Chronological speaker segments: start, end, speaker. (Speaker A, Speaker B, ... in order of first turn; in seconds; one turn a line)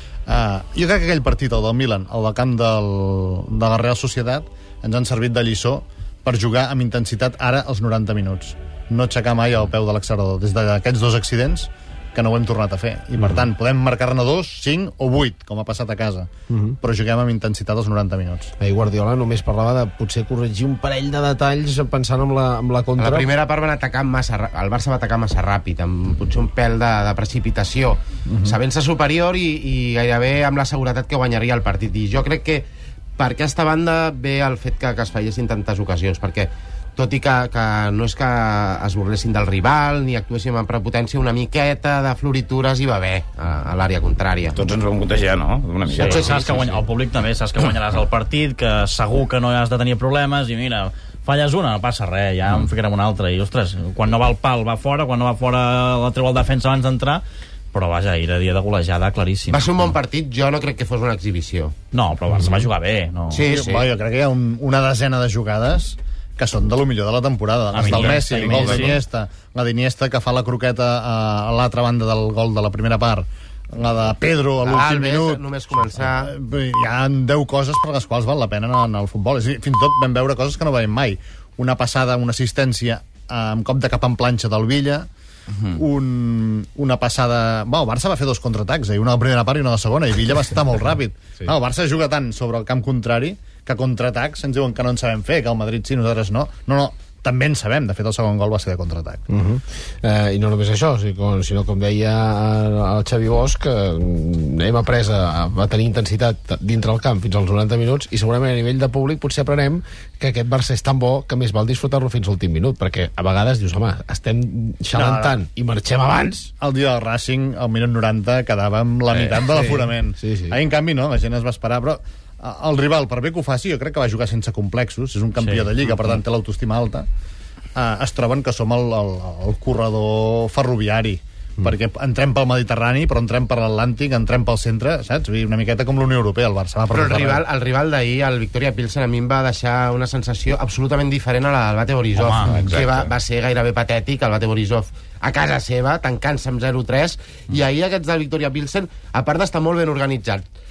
Speaker A: 0.3-16.3
Speaker B: 16.5-16.7
Speaker A: 16.8-18.5
Speaker B: 18.6-23.3
Speaker C: 23.0-44.6
Speaker A: 28.2-28.6
Speaker D: 44.5-46.8
Speaker E: 45.9-59.8
Speaker C: 46.0-46.4
Speaker C: 59.5-61.7
Speaker E: 61.9-63.5
Speaker C: 63.3-63.9
Speaker A: 63.4-75.4
Speaker E: 67.7-69.0
Speaker D: 67.8-69.0
Speaker C: 74.6-76.3
Speaker A: 76.0-85.1
Speaker D: 85.5-85.8
Speaker A: 85.7-99.2
Speaker B: 99.3-116.5
Speaker A: 114.9-115.3
Speaker A: 116.6-127.1
Speaker D: 119.1-119.4
Speaker B: 119.5-120.6
Speaker E: 125.4-125.7
Speaker A: 127.7-137.4
Speaker C: 136.9-150.4
Speaker E: 142.1-142.6
Speaker D: 142.4-143.1